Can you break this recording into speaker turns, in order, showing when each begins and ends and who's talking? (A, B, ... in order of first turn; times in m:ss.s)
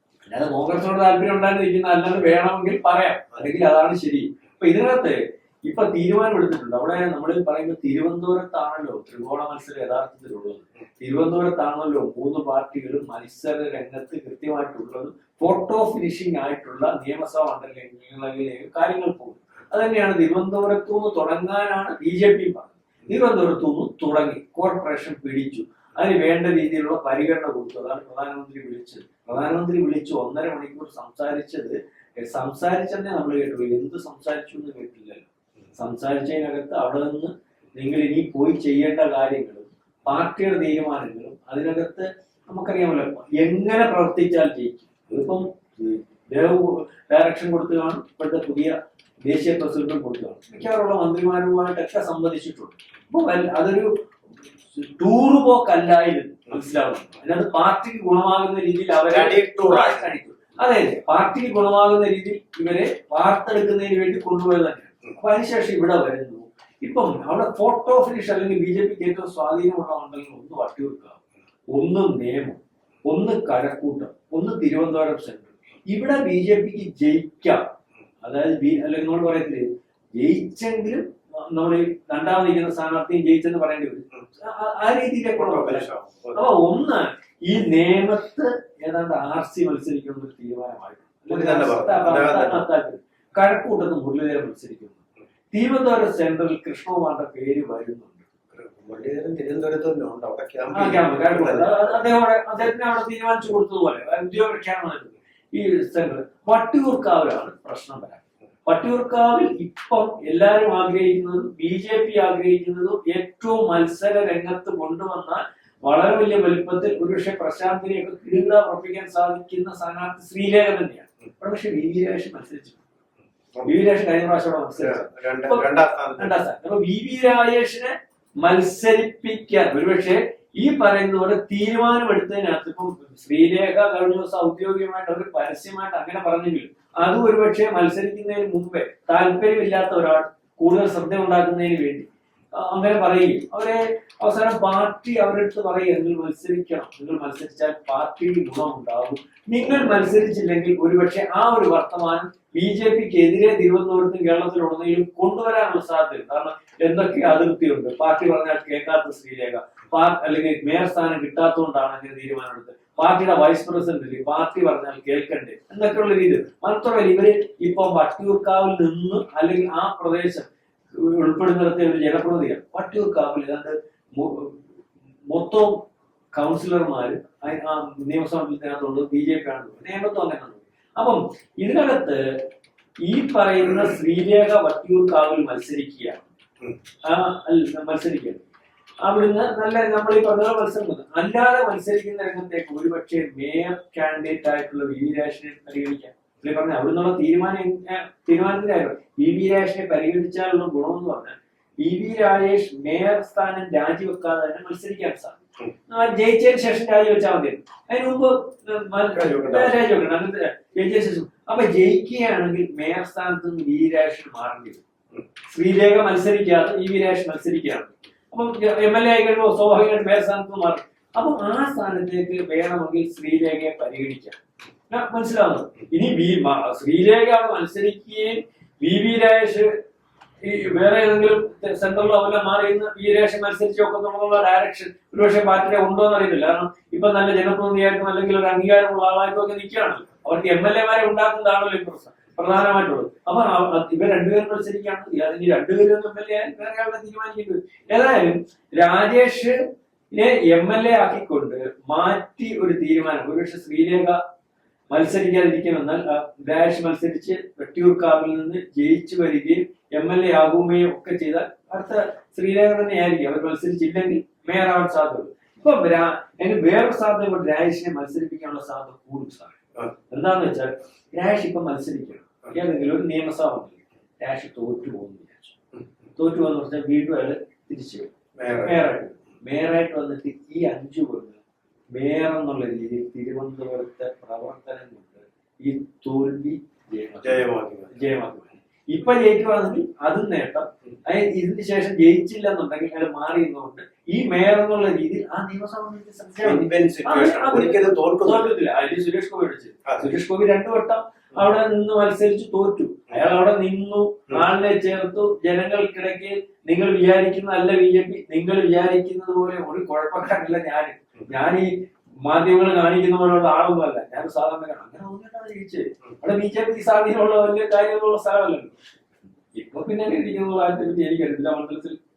0:00.2-0:53.9 A
0:54.7-1:11.2 A
0:59.1-1:00.2 B
1:11.7-1:17.7 A
1:18.2-1:35.0 A
1:25.3-1:26.5 B
1:31.3-1:32.6 B
1:35.5-1:38.2 A
1:38.5-1:42.1 B
1:40.7-2:02.8 A
2:03.6-2:05.6 A
2:04.8-2:06.4 B
2:06.2-2:54.6 A
2:55.2-3:02.5 A
3:03.0-3:06.3 A
3:07.0-3:08.4 A
3:09.0-3:34.8 A
3:29.1-3:29.8 B
3:35.5-3:44.4 A
3:44.9-3:49.7 A
3:50.4-4:09.6 A
4:10.1-4:14.2 A
4:14.9-4:29.5 A
4:30.1-4:35.5 A
4:36.2-4:38.1 A
4:38.4-4:38.9 B
4:38.6-4:41.4 A
4:41.9-5:11.7 A
4:47.2-4:48.0 B
4:56.4-4:58.5 B
5:12.2-5:18.7 A
5:19.5-5:22.0 A